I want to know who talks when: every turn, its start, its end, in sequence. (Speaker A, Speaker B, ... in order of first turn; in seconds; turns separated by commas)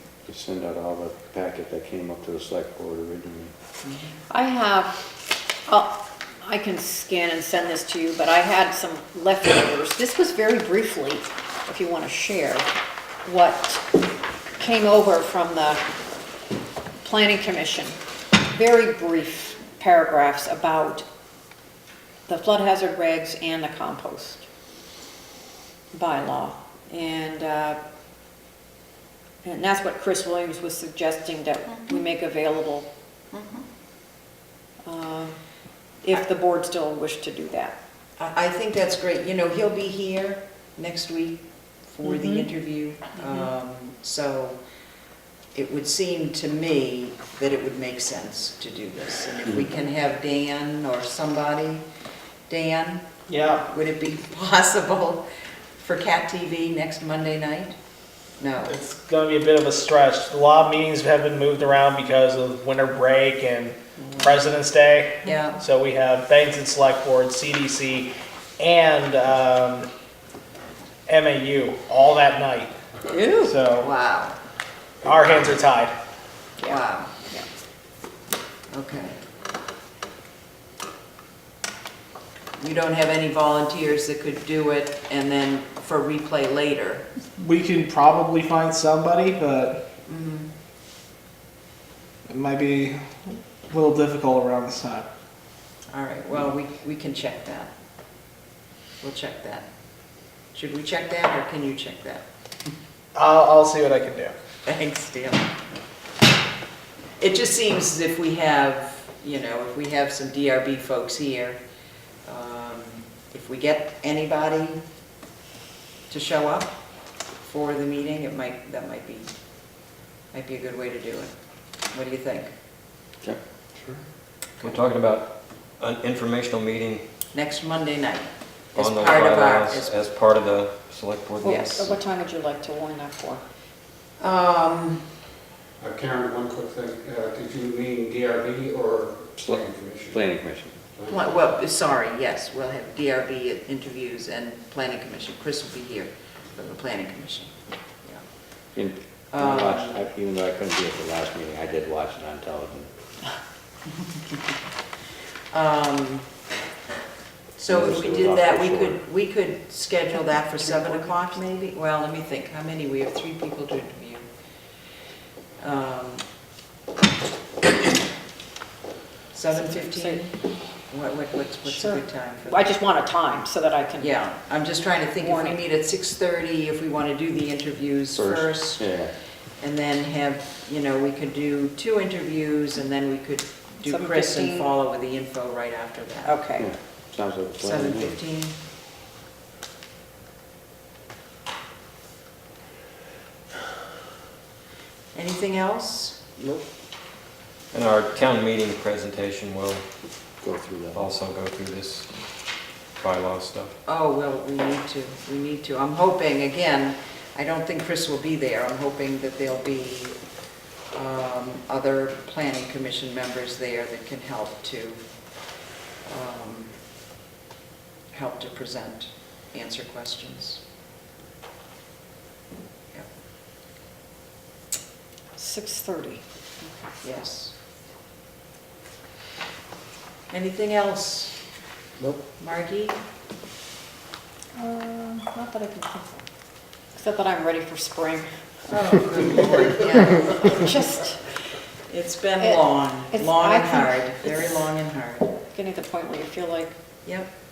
Speaker A: 0.2-3.5, Speaker B: 4.3-5.0, Speaker B: 5.7-12.7, Speaker B: 13.2-13.8, Speaker B: 14.6-15.8, Speaker B: 17.0-17.9, Speaker B: 18.5-21.0, Speaker B: 22.3-24.4, Speaker B: 25.9-27.8, Speaker B: 29.4-32.9, Speaker B: 34.8-35.4, Speaker B: 36.0-37.7, Speaker C: 38.2-44.6, Speaker B: 42.1-42.4, Speaker C: 45.5-51.8, Speaker C: 52.5-53.0, Speaker D: 53.3-53.6, Speaker C: 53.7-55.2, Speaker C: 55.8-57.7, Speaker C: 58.4-58.7, Speaker D: 58.6-69.9, Speaker C: 64.0-64.3, Speaker C: 65.2-65.6, Speaker D: 71.1-72.8, Speaker B: 73.1-73.5, Speaker D: 73.4-73.9, Speaker C: 73.7-74.3, Speaker D: 75.0-75.9, Speaker B: 76.6-77.4, Speaker C: 76.6-77.1, Speaker C: 78.7-79.2, Speaker C: 82.6-87.0, Speaker D: 87.3-89.8, Speaker C: 90.1-90.5, Speaker D: 92.2-95.1, Speaker C: 95.9-97.7, Speaker C: 99.0-99.7, Speaker C: 100.5-102.2, Speaker D: 103.1-104.3, Speaker C: 104.7-105.5, Speaker C: 107.2-111.6, Speaker C: 112.2-114.8, Speaker C: 116.1-116.7, Speaker C: 117.4-119.3, Speaker C: 120.3-121.3, Speaker C: 121.9-122.5, Speaker E: 124.6-127.0, Speaker C: 127.3-129.9, Speaker E: 128.8-131.9, Speaker B: 131.4-133.4, Speaker C: 131.4-131.9, Speaker C: 134.2-135.0, Speaker F: 135.8-140.2, Speaker A: 139.4-140.8, Speaker F: 140.9-141.3, Speaker C: 141.1-147.5, Speaker A: 148.7-152.9, Speaker C: 149.3-150.0, Speaker C: 155.5-156.3, Speaker C: 157.6-164.2, Speaker A: 157.7-159.0, Speaker B: 160.7-161.2, Speaker C: 165.6-166.2, Speaker C: 169.3-170.2, Speaker B: 169.6-170.3, Speaker C: 170.9-172.7, Speaker B: 171.7-174.2, Speaker C: 174.0-178.8, Speaker B: 175.2-175.6, Speaker A: 178.1-179.1, Speaker C: 179.6-186.4, Speaker B: 183.8-184.7, Speaker B: 186.2-186.7, Speaker A: 186.6-188.1, Speaker C: 187.6-188.5, Speaker C: 195.1-196.3, Speaker E: 197.7-199.8, Speaker A: 200.4-201.0, Speaker E: 200.9-202.1, Speaker E: 203.0-203.7, Speaker C: 203.8-210.2, Speaker C: 210.9-215.0, Speaker C: 216.0-216.7, Speaker C: 218.1-220.6, Speaker B: 225.4-226.2, Speaker C: 227.0-227.5, Speaker C: 230.3-231.3, Speaker C: 232.4-233.0, Speaker B: 234.6-236.2, Speaker B: 236.9-238.3, Speaker C: 238.7-240.8, Speaker B: 240.5-241.2, Speaker C: 241.9-245.3, Speaker B: 242.4-244.3, Speaker B: 245.5-246.7